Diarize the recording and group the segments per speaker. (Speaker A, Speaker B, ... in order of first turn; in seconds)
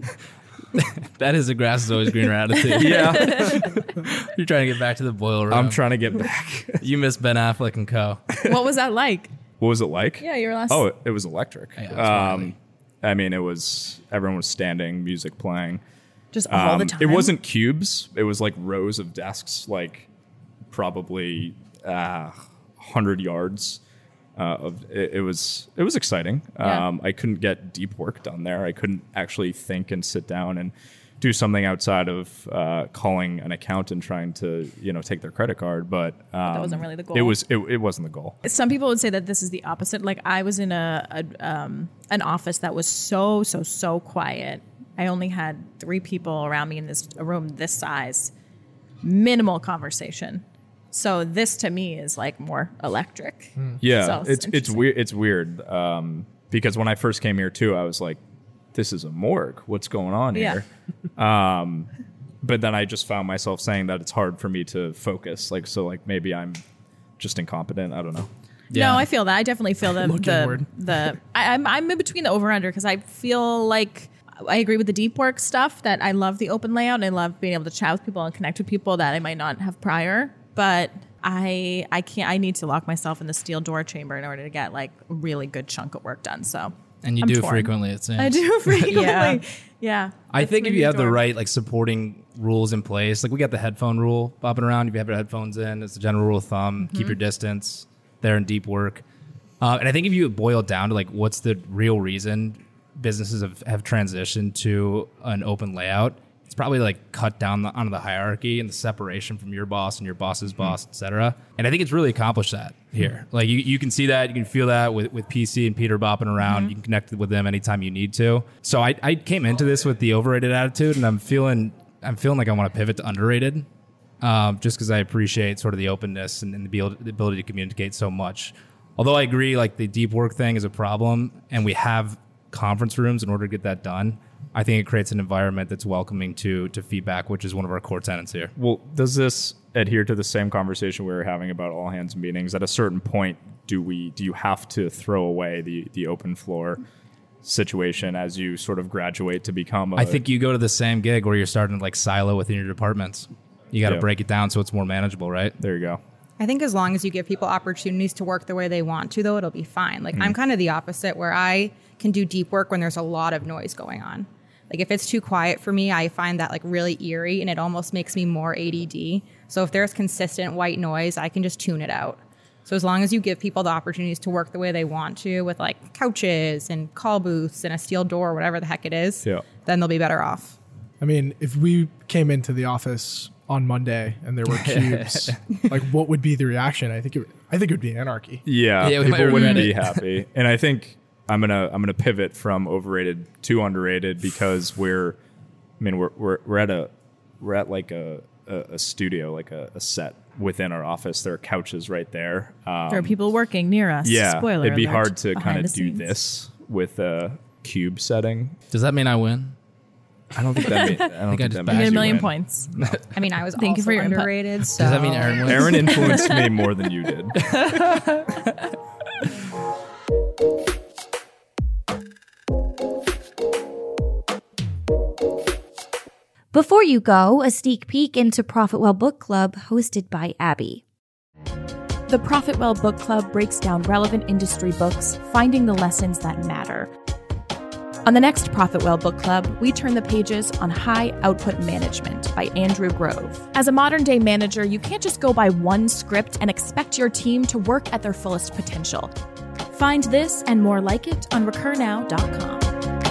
Speaker A: 0.7-5.9, 6.8-8.2, 11.8-12.5, 68.7-69.0, 87.0-89.1, 90.3-99.0, 99.6-123.7, 124.2-138.5, 149.9-155.6, 184.5-185.4, 188.8-190.1, 208.7-209.5, 210.3-213.3, 214.6-216.3, 217.3-218.5
Speaker B: 2.5-3.7, 8.4-9.3, 10.2-10.8, 16.3-17.3, 26.6-26.9, 36.4-37.4, 38.4-48.3, 49.0-54.8, 60.3-60.6, 68.7-91.2, 202.9-206.1, 211.7-212.7, 213.5-214.5, 215.7-216.5, 232.1-236.9, 238.1-249.1, 249.7-252.7
Speaker C: 2.7-3.8, 5.5-6.8, 9.6-15.8, 16.5-20.1, 20.7-23.8, 24.4-38.4, 53.8-58.2, 58.7-60.6, 61.2-61.9, 62.4-66.6, 67.2-68.3, 138.6-146.8, 147.4-150.2, 155.6-156.0, 179.2-179.5, 188.4-195.2, 195.8-203.2, 204.0-208.6, 210.3-212.3, 215.3-217.3
Speaker D: 53.6-53.8, 69.9-70.7, 181.0-188.4
Speaker E: 156.4-180.6, 213.2-215.4
Speaker F: 226.5-230.8